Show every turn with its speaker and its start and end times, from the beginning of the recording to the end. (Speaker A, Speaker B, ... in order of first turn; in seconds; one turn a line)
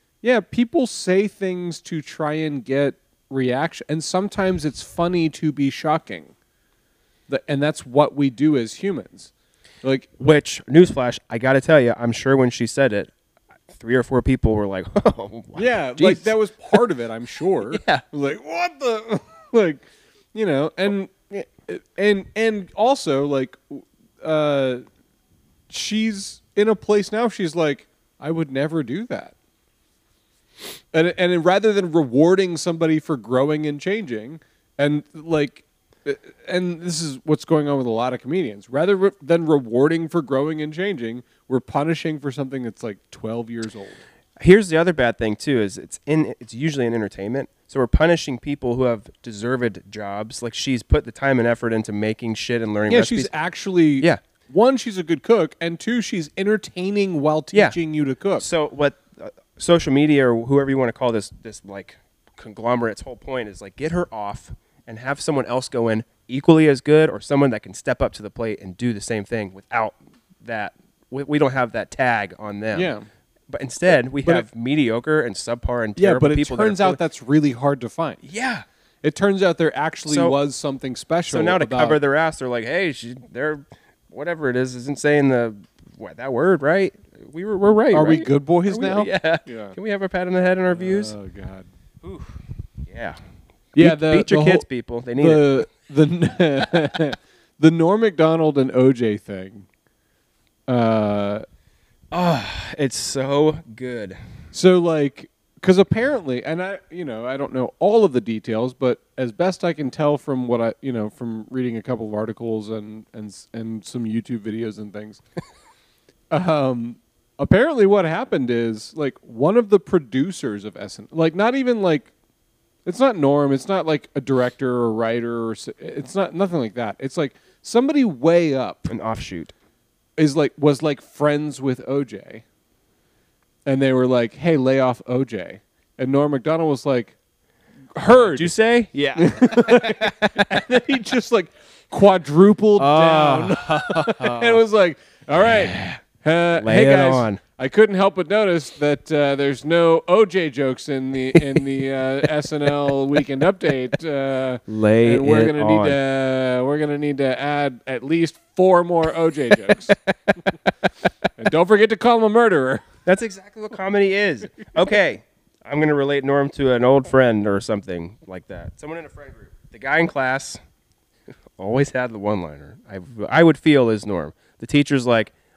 Speaker A: 0.2-6.3
Speaker A: 7.3-9.3
Speaker A: 9.8-10.1
Speaker B: 10.2-13.1
Speaker B: 13.7-16.8
Speaker A: 15.5-24.8
Speaker B: 17.7-18.0
Speaker A: 25.7-29.3
Speaker A: 30.9-44.0
Speaker B: 44.4-53.3
Speaker A: 52.9-58.5
Speaker B: 58.4-72.9
Speaker A: 72.7-73.1
Speaker B: 73.5-77.0
Speaker A: 76.0-78.2
Speaker B: 78.2-78.6
Speaker A: 79.0-82.0
Speaker B: 80.0-80.3
Speaker B: 81.3-91.1
Speaker A: 87.9-89.8
Speaker A: 90.7-91.7
Speaker B: 92.8-93.2
Speaker A: 93.7-94.6
Speaker B: 93.7-95.6
Speaker A: 95.2-99.7
Speaker A: 100.7-101.4
Speaker B: 102.1-104.2
Speaker A: 104.5-115.2
Speaker A: 116.3-122.1
Speaker A: 122.8-128.9
Speaker B: 128.8-129.5
Speaker A: 130.2-132.4
Speaker A: 133.7-137.1
Speaker A: 137.9-138.5
Speaker B: 138.1-140.5
Speaker A: 139.2-160.6
Speaker B: 142.8-144.6
Speaker B: 145.4-146.0
Speaker B: 146.6-147.4
Speaker B: 154.7-156.0
Speaker A: 161.3-162.8
Speaker B: 163.0-170.6
Speaker B: 171.6-175.3